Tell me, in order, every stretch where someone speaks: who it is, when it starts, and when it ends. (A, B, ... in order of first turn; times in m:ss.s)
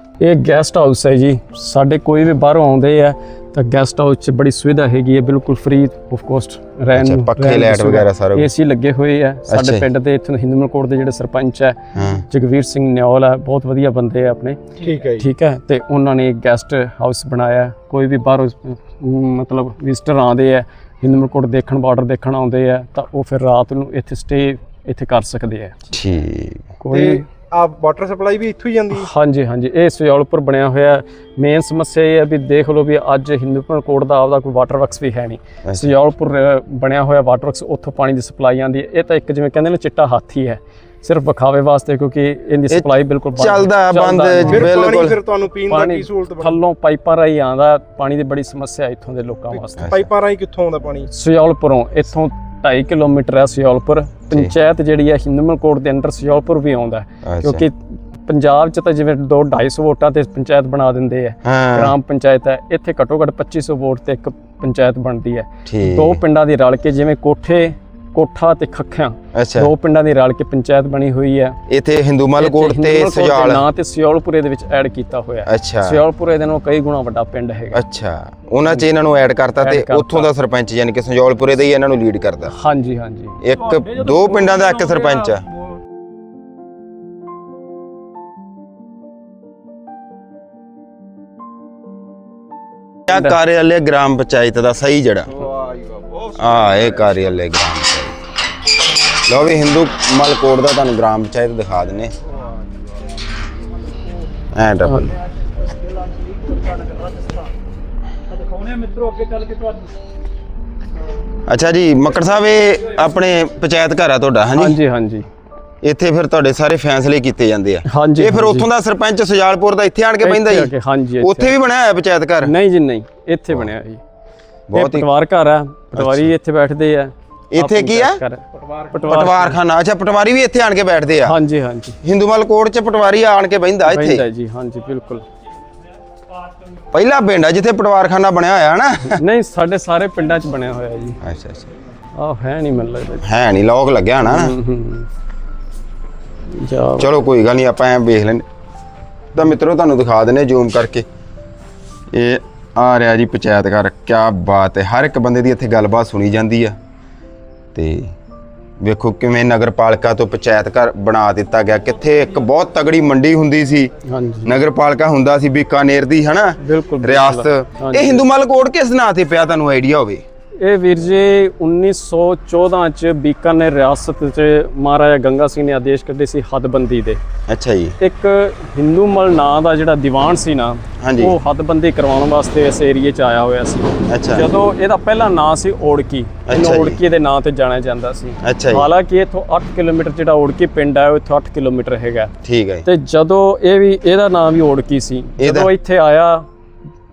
0:00.2-0:25.8 A
0:06.9-0:08.5 B
0:09.5-0:09.8 B
0:11.9-0:12.2 B
0:14.8-0:15.2 C
0:25.9-0:26.7 B
0:26.8-0:27.3 A
0:26.9-0:29.1 C
0:28.9-0:44.9 A
0:35.6-0:36.0 B
0:42.7-0:45.2 B
0:44.4-0:46.6 C
0:45.7-0:50.0 A
0:49.5-0:51.1 C
0:49.8-0:50.1 B
0:51.1-0:57.7 A
0:57.2-0:57.7 B
0:58.2-1:11.6 A
1:01.4-1:01.9 B
1:05.6-1:06.2 B
1:09.3-1:09.7 B
1:11.7-1:13.6 B
1:12.4-1:17.8 A
1:15.4-1:16.0 B
1:17.7-1:22.5 B
1:19.6-1:20.3 A
1:22.5-1:23.4 A
1:23.4-1:25.4 B
1:23.6-1:25.4 D
1:33.1-1:35.4 B
1:33.1-1:33.4 A
1:35.3-1:37.2 C
1:36.4-1:38.2 B
1:39.3-1:42.1 B
1:44.5-1:45.1 B
1:44.8-1:45.1 A
1:45.7-1:47.5 D
1:48.3-1:49.9 D
1:51.5-1:54.8 B
1:54.5-1:55.3 A
1:55.8-2:02.5 B
1:57.9-1:58.7 A
2:00.2-2:01.5 A
2:02.4-2:04.0 A
2:04.7-2:05.1 B
2:04.7-2:09.6 A
2:05.9-2:06.3 B
2:07.5-2:08.2 B
2:08.6-2:08.9 C
2:09.0-2:11.4 B
2:11.2-2:12.0 A
2:12.0-2:14.2 B
2:13.8-2:15.2 A
2:16.9-2:19.2 B
2:19.1-2:21.2 A
2:21.2-2:21.7 B
2:22.2-2:23.3 A
2:23.2-2:24.6 B
2:24.2-2:25.1 A
2:26.5-2:27.1 A
2:27.0-2:28.4 B
2:29.3-2:31.0 B
2:32.1-2:36.8 B
2:37.7-2:38.1 B
2:38.8-2:43.9 B
2:44.0-2:44.6 A
2:44.4-2:50.2 B
2:46.6-2:48.2 A
2:50.6-2:57.2 A
2:57.5-2:58.0 B
2:58.0-3:12.3 A
3:01.0-3:01.4 B
3:04.1-3:04.5 B
3:06.4-3:07.0 B
3:08.4-3:08.9 B
3:12.4-3:12.8 B
3:12.8-3:16.5 A
3:15.4-3:15.7 B